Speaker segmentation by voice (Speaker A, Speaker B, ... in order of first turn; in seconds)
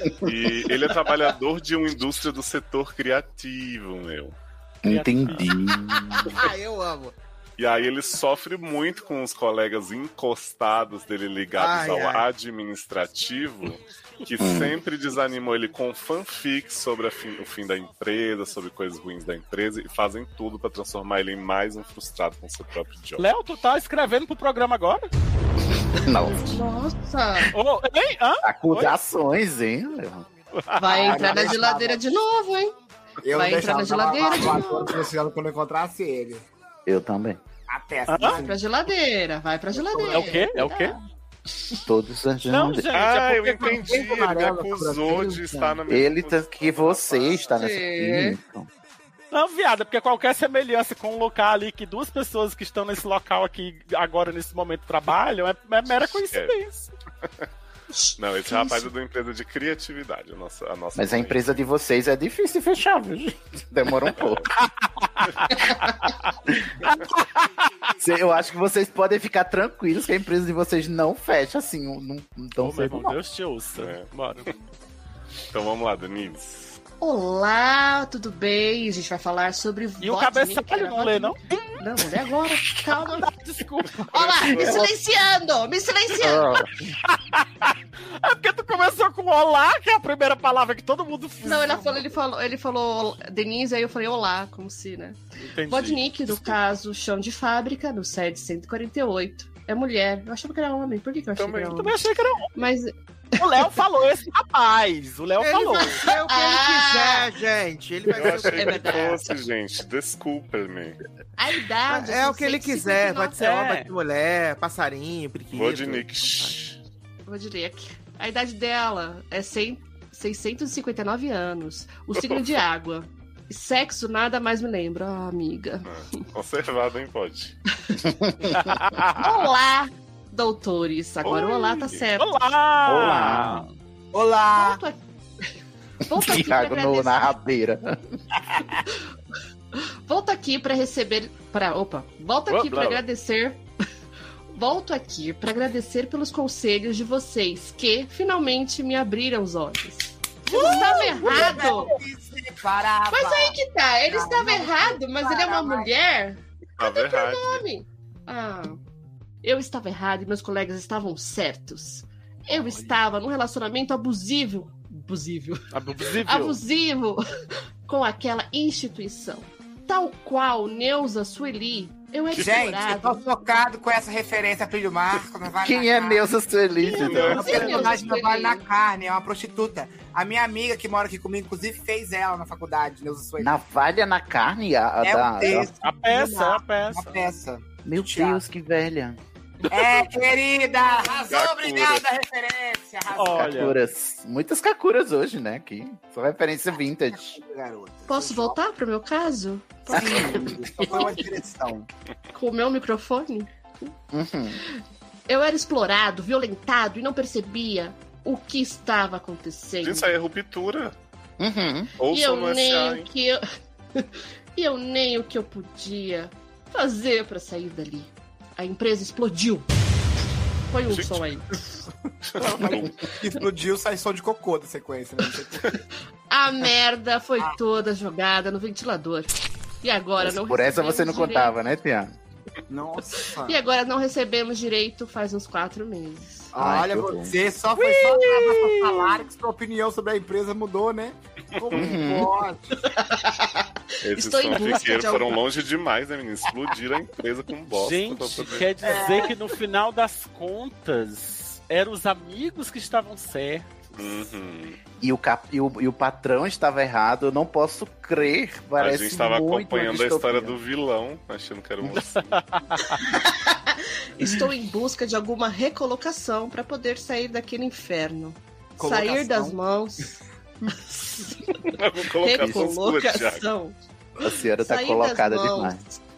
Speaker A: 0.2-4.3, 7.6-23.3, 42.9-47.5, 56.3-56.6, 58.2-61.5, 64.2-64.4, 73.8-74.0, 75.5-76.8, 84.2-84.9, 101.3-101.8, 108.2-111.0, 115.5-116.8, 122.2-122.5, 125.8-127.5, 131.2-132.1, 156.8-157.6, 177.0-177.7, 191.3-192.0, 209.8-210.9, 212.0-213.1, 220.9-221.2, 222.3-222.9, 241.6-241.9, 244.0-248.7, 253.9-254.8, 258.8-262.4, 271.7-273.5
Speaker B: 4.8-6.4, 14.4-14.8, 26.0-26.6, 28.4-30.2, 36.9-37.4, 41.7-42.9, 45.9-48.7, 60.9-64.5, 68.0-73.2, 86.2-86.6, 128.0-128.7, 132.8-133.7, 136.1-137.9, 175.6-177.7, 183.4-185.7, 187.8-189.2, 193.4-197.4, 199.9-201.1, 204.1-204.6, 211.4-211.9, 230.2-232.1, 236.6-237.3, 241.7-242.3, 255.0-260.6, 272.4-272.7, 274.2-275.8
Speaker C: 4.9-5.5, 23.2-25.1, 27.5-28.9, 30.6-31.5, 38.1-38.4, 40.1-40.9, 42.5-44.0, 49.3-56.9, 72.6-74.5, 80.0-81.6, 83.1-84.2, 87.0-92.0, 95.4-96.5, 101.7-102.5, 103.4-106.0, 113.4-113.9, 128.5-129.3, 132.2-133.7, 142.5-143.0, 150.5-151.9, 165.7-166.6, 177.1-177.9, 185.8-187.2, 193.1-193.7, 237.7-239.2, 247.7-253.7, 261.9-263.0
Speaker D: 6.3-7.2, 11.6-12.3, 105.4-108.9, 111.9-116.5
Speaker E: 26.4-27.5, 30.8-32.7, 33.3-35.0, 38.2-40.9, 47.5-48.4, 57.9-58.9, 77.0-83.3, 84.1-86.6, 91.4-102.0, 102.5-103.7, 106.0-107.3, 108.5-109.3, 111.4-113.4, 117.2-125.9, 129.1-132.3, 134.5-135.0, 136.0-137.3, 139.8-143.6, 144.5-151.9, 153.1-158.8, 159.4-165.6, 166.1-167.2, 167.8-173.2, 176.9-178.6, 198.1-201.1, 202.3-203.9, 205.3-210.1, 212.1-213.4, 213.9-219.7, 220.7-221.4, 226.3-229.3, 229.8-231.6, 233.4-236.5, 242.8-245.4, 263.0-270.1, 272.2-275.8
Speaker F: 30.9-32.1, 33.2-36.4, 37.7-38.6, 39.7-40.5, 134.1-134.8, 150.5-156.0, 172.4-176.2, 177.2-183.5, 185.0-188.4, 189.7-193.7, 197.2-198.6, 199.9-201.9, 222.4-225.8, 232.7-233.6, 236.5-242.9, 248.8-249.3, 268.8-269.6